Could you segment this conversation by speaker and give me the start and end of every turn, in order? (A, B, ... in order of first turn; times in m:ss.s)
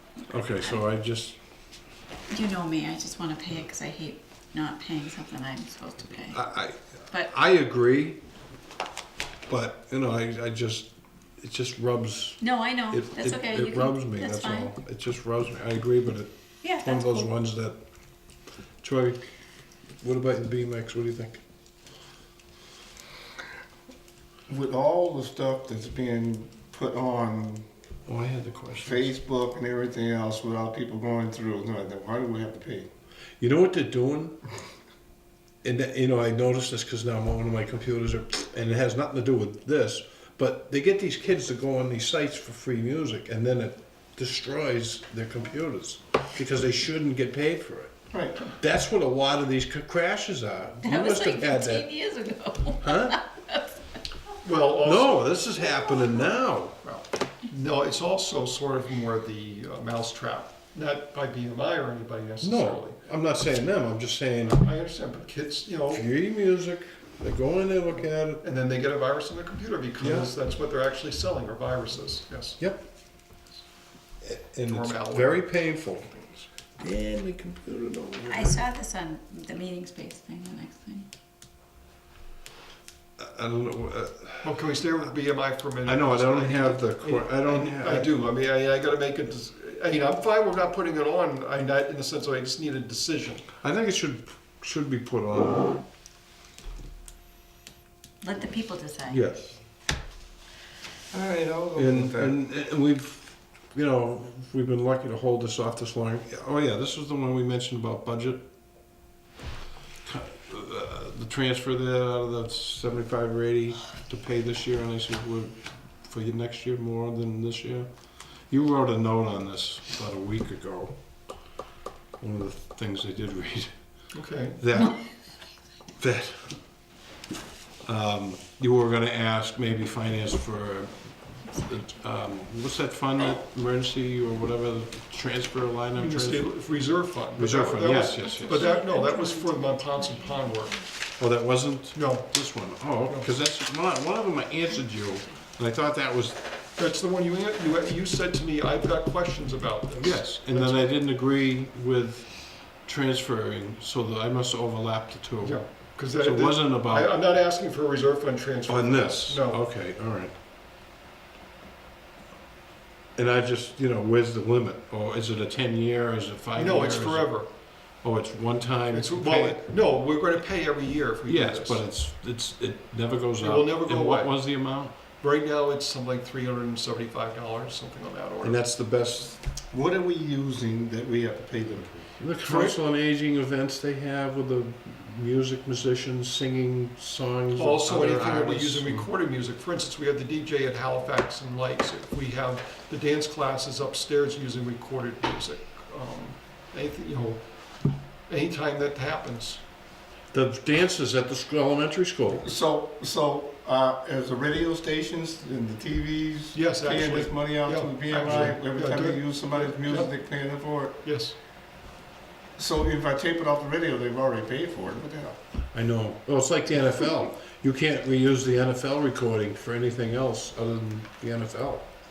0:00.3-0:01.4 A
0:02.3-0:06.4 B
0:06.3-0:08.2 A
0:09.5-0:17.8 A
0:12.4-0:14.7 B
0:16.6-0:17.3 B
0:18.8-0:19.2 A
0:20.0-0:21.4 A
0:24.5-0:27.7 C
0:28.1-0:29.1 A
0:28.8-0:32.9 C
0:33.4-0:34.4 A
0:35.6-0:52.0 A
0:48.1-0:48.5 C
0:50.8-0:53.7 B
0:52.8-0:53.2 A
0:54.4-0:55.4 D
0:54.8-0:56.8 A
0:56.8-1:03.0 D
1:02.4-1:04.6 A
1:04.5-1:06.1 D
1:05.9-1:08.4 A
1:08.4-1:12.6 D
1:10.0-1:10.3 A
1:14.2-1:16.2 A
1:14.6-1:16.3 D
1:16.8-1:18.6 A
1:18.3-1:21.1 B
1:23.2-1:24.6 A
1:24.4-1:33.5 D
1:25.8-1:28.2 A
1:33.6-1:35.8 A
1:38.2-1:39.2 B
1:39.1-1:39.6 A
1:41.1-1:42.4 C
1:41.8-1:48.4 A
1:50.0-2:01.0 A
2:02.2-2:04.0 A
2:04.1-2:04.6 D
2:04.6-2:05.1 A
2:06.0-2:06.6 A
2:07.8-2:16.5 A
2:16.0-2:20.8 D
2:17.4-2:18.7 A
2:18.2-2:20.9 B
2:21.2-2:26.4 A
2:21.9-2:22.3 D
2:26.8-2:31.0 D
2:30.0-2:37.1 A
2:35.4-2:39.6 D
2:38.7-2:40.3 A
2:43.2-2:47.4 A
2:46.6-2:47.5 D
2:48.0-2:49.6 A
2:48.9-2:51.8 D
2:51.3-2:54.9 A
2:53.4-2:54.6 D
2:55.2-2:58.6 D
2:58.4-2:59.4 A
2:59.7-3:02.8 C
3:02.2-3:09.1 A
3:07.6-3:19.6 D
3:20.3-3:22.5 A
3:22.4-3:31.0 C
3:26.5-3:30.1 D
3:31.0-3:31.4 D
3:32.6-3:35.4 C
3:35.7-3:41.9 A